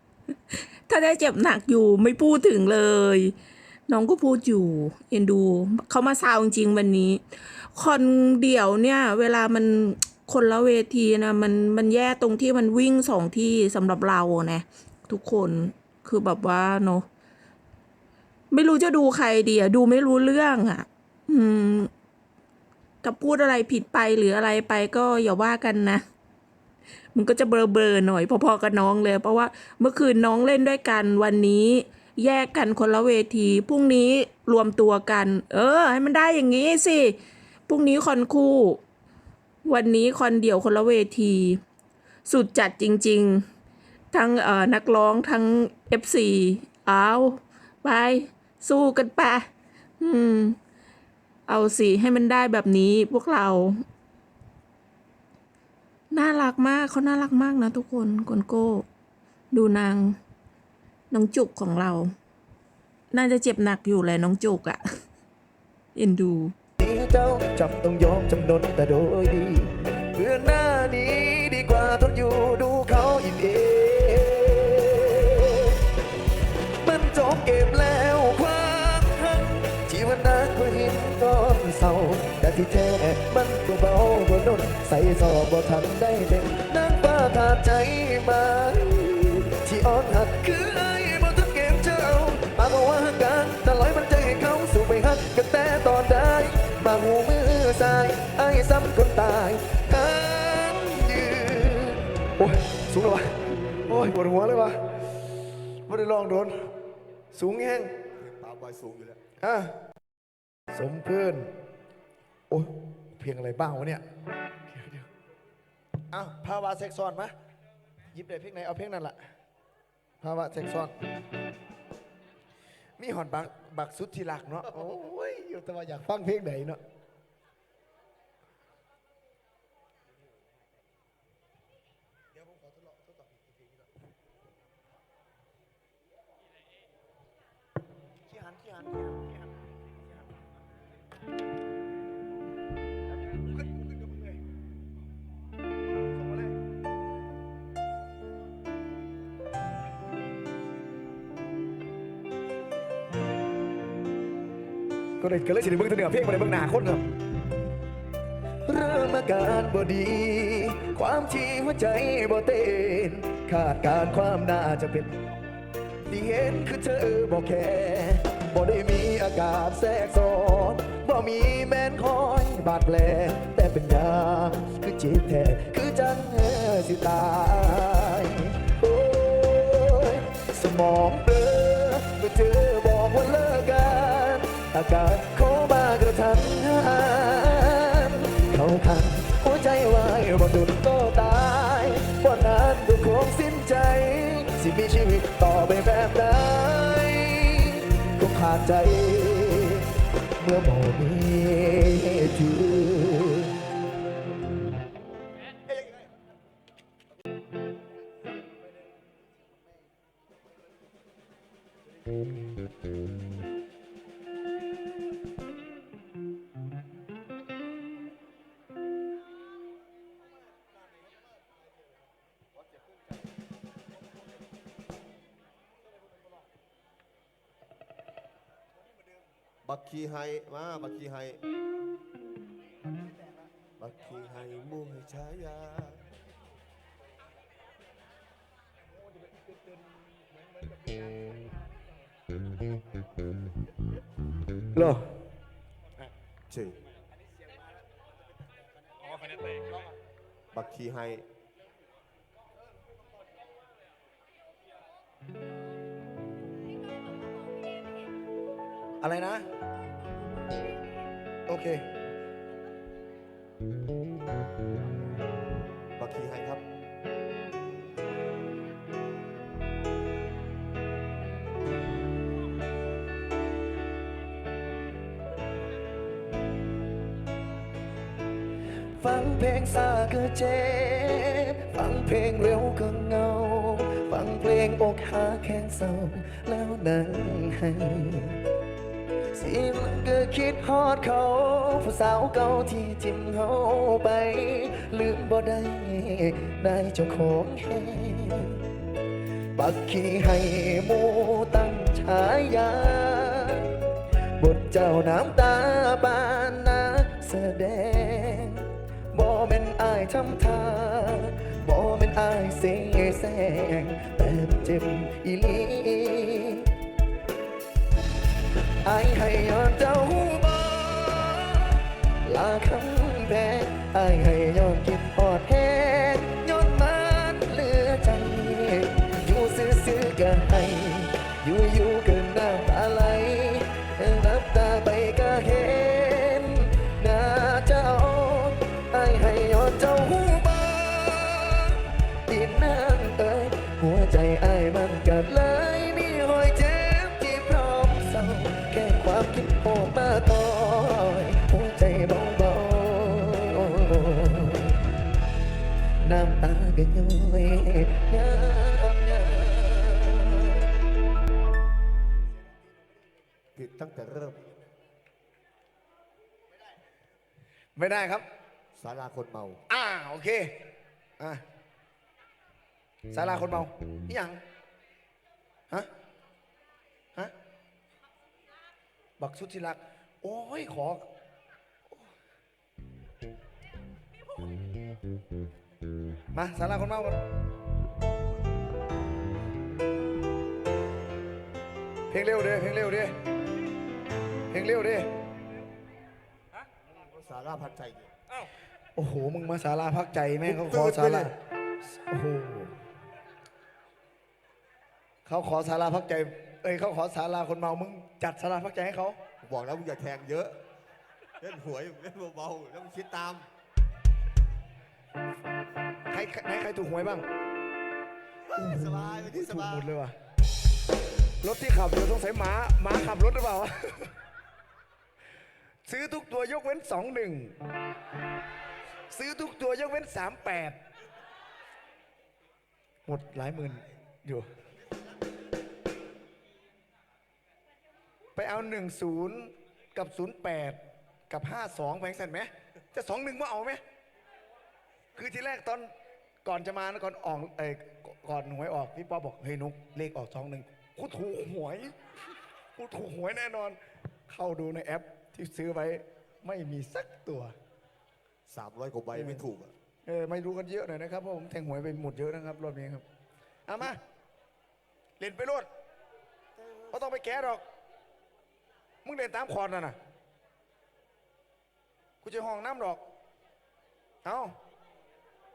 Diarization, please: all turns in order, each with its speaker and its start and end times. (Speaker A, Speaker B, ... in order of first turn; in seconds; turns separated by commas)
Speaker A: 0.5-3.3, Speaker A: 3.9-7.2, Speaker A: 7.7-17.1, Speaker A: 18.5-21.9, Speaker A: 23.0-26.0, Speaker A: 27.1-38.8, Speaker A: 39.6-41.6, Speaker A: 42.2-43.4, Speaker A: 44.1-49.5, Speaker A: 50.0-50.6, Speaker A: 51.5-53.8, Speaker A: 56.1-58.9, Speaker A: 59.5-60.2, Speaker A: 61.1-62.1, Speaker A: 63.1-64.8, Speaker A: 65.9-66.5, Speaker B: 66.8-75.8, Speaker B: 76.8-105.2, Speaker B: 105.8-106.5, Speaker B: 107.3-107.9, Speaker C: 108.2-109.2, Speaker B: 109.4-109.8, Speaker B: 110.7-111.5, Speaker B: 112.5-114.0, Speaker B: 114.7-115.1, Speaker B: 116.1-117.3, Speaker B: 118.1-119.2, Speaker B: 120.2-120.9, Speaker B: 123.0-126.8, Speaker B: 132.4-133.5, Speaker B: 138.2-139.8, Speaker B: 143.2-144.4, Speaker B: 146.1-146.6, Speaker B: 155.2-157.1, Speaker B: 158.7-165.2, Speaker B: 166.1-203.6, Speaker C: 229.6-231.4, Speaker C: 233.8-236.0, Speaker B: 244.7-245.1, Speaker C: 246.5-246.8, Speaker C: 250.5-251.2, Speaker B: 259.0-259.4, Speaker B: 261.5-261.9, Speaker C: 266.0-266.6, Speaker B: 279.0-288.4, Speaker B: 289.3-298.6, Speaker B: 299.5-303.7, Speaker B: 304.4-316.7, Speaker B: 318.8-354.8, Speaker B: 356.0-360.6, Speaker C: 363.5-364.6, Speaker B: 367.8-368.2, Speaker C: 368.7-369.6, Speaker B: 369.7-370.6, Speaker B: 373.1-374.4, Speaker B: 379.2-381.1, Speaker B: 386.3-387.2, Speaker B: 392.1-393.1, Speaker B: 394.5-395.1, Speaker C: 397.0-398.1, Speaker B: 398.9-401.4, Speaker C: 400.4-401.3, Speaker B: 401.9-402.7, Speaker B: 405.2-409.2, Speaker C: 409.4-410.6, Speaker C: 411.4-413.5, Speaker B: 416.1-417.2, Speaker C: 418.5-419.9, Speaker B: 418.6-420.1, Speaker B: 421.4-424.1, Speaker B: 425.9-427.6, Speaker B: 429.1-430.8, Speaker B: 433.1-434.5, Speaker B: 438.4-440.8, Speaker B: 441.3-443.8, Speaker B: 445.1-445.9, Speaker B: 446.4-451.9, Speaker B: 452.8-457.5, Speaker C: 458.5-459.7, Speaker B: 459.1-459.4, Speaker B: 460.1-463.0, Speaker B: 463.7-464.0, Speaker B: 465.2-465.7, Speaker B: 466.9-467.6, Speaker B: 469.0-470.0, Speaker B: 472.2-473.0, Speaker B: 474.2-474.5